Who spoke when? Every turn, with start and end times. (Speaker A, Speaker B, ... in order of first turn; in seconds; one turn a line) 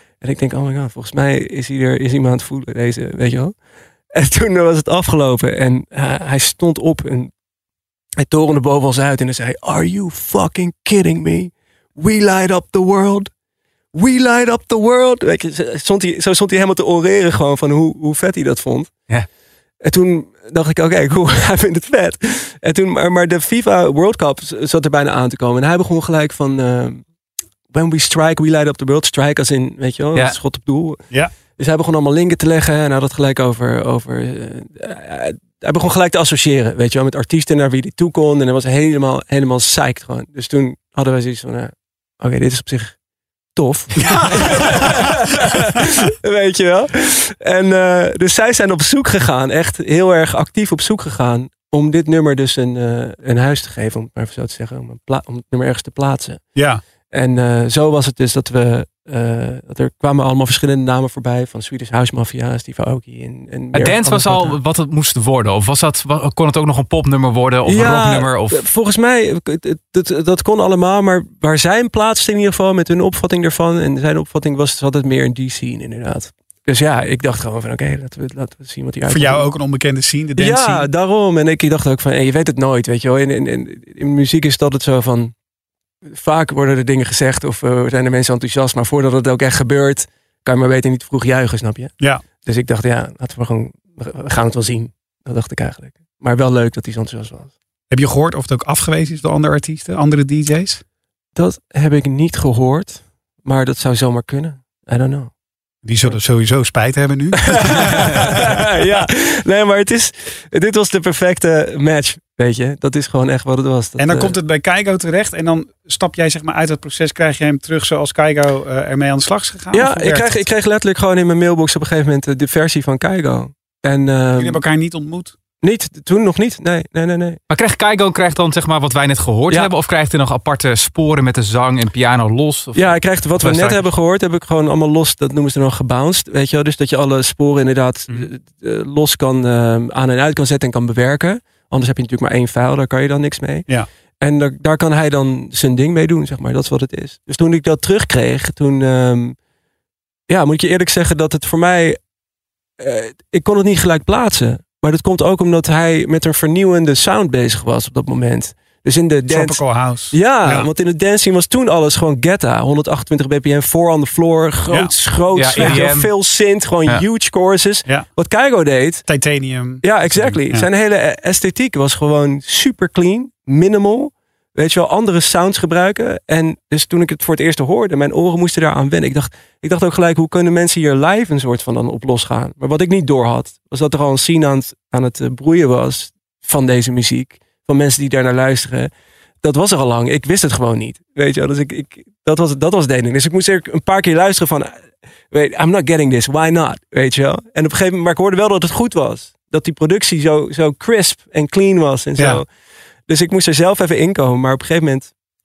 Speaker A: 0.2-3.5
Speaker A: 4.1-7.3
Speaker A: 8.2-13.3
Speaker A: 13.9-18.9
Speaker A: 19.8-27.0
Speaker A: 27.7-31.0
Speaker A: 31.6-43.0
Speaker A: 43.5-56.4
Speaker B: 44.0-45.2
Speaker B: 56.5-56.8
Speaker A: 57.1-64.5
Speaker C: 63.7-68.6
Speaker A: 67.7-79.5
Speaker B: 79.1-80.9
Speaker A: 80.4-85.3
Speaker A: 86.1-97.5
Speaker B: 97.9-100.8
Speaker A: 101.3-105.3
Speaker B: 105.8-108.9
Speaker A: 107.4-114.3
Speaker B: 114.0-120.4
Speaker A: 119.7-124.6
Speaker B: 124.4-125.3
Speaker A: 125.6-127.4
Speaker C: 127.5-133.8
Speaker A: 132.7-143.7
Speaker A: 144.2-149.3
Speaker A: 150.3-152.0
Speaker A: 152.8-169.1
Speaker B: 159.2-160.7
Speaker C: 165.3-166.1
Speaker B: 165.5-165.9
Speaker B: 169.1-170.7
Speaker A: 169.8-188.9
Speaker A: 189.4-202.5
Speaker B: 202.2-202.4
Speaker A: 203.1-205.1